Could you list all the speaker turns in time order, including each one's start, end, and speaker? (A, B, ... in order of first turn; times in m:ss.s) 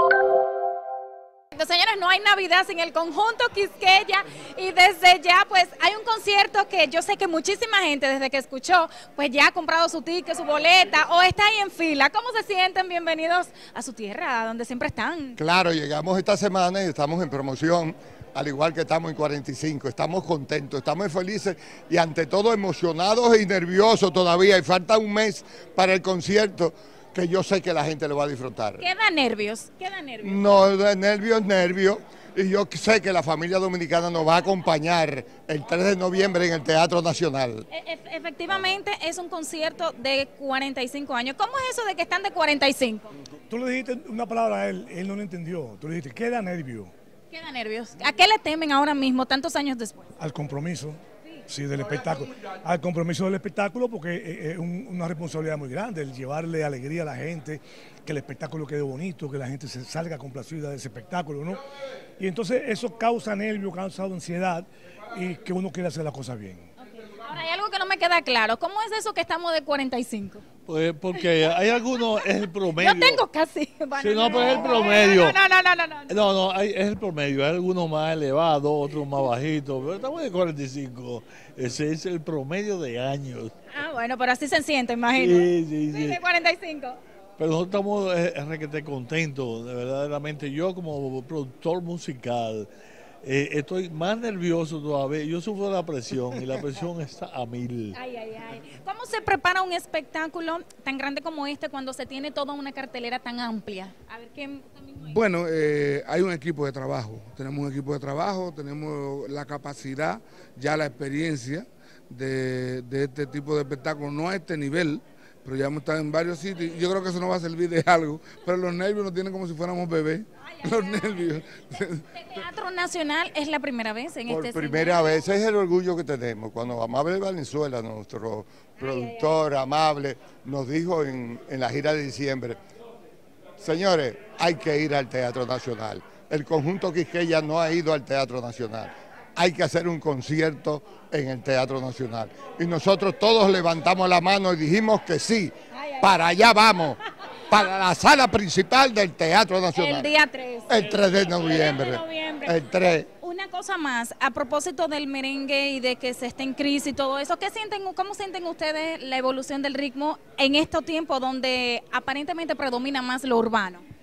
0:01.5-0:15.4 A
0:15.4-0:28.8 B
0:28.8-0:30.5 A
0:30.2-0:37.7 B
0:37.7-0:43.1 A
0:43.5-0:46.9 C
0:47.3-0:50.1 A
0:50.2-1:01.6 C
1:02.2-1:06.7 C
1:07.0-1:10.4 A
1:10.7-1:13.2 D
1:12.8-1:16.2 A
1:14.0-1:15.4 D
1:16.1-1:23.5 D
1:23.7-1:27.0 A
1:25.2-1:26.2 D
1:27.4-1:32.7 D
1:33.2-1:38.0 D
1:37.9-1:45.2 A
1:45.0-2:02.0 E
2:02.1-2:05.1 A
2:04.3-2:12.6 B
2:13.6-2:27.0 B
2:25.8-2:26.1 A
2:27.5-2:30.1 B
2:29.8-2:32.6 A
2:30.7-2:33.1 B
2:33.2-2:43.8 A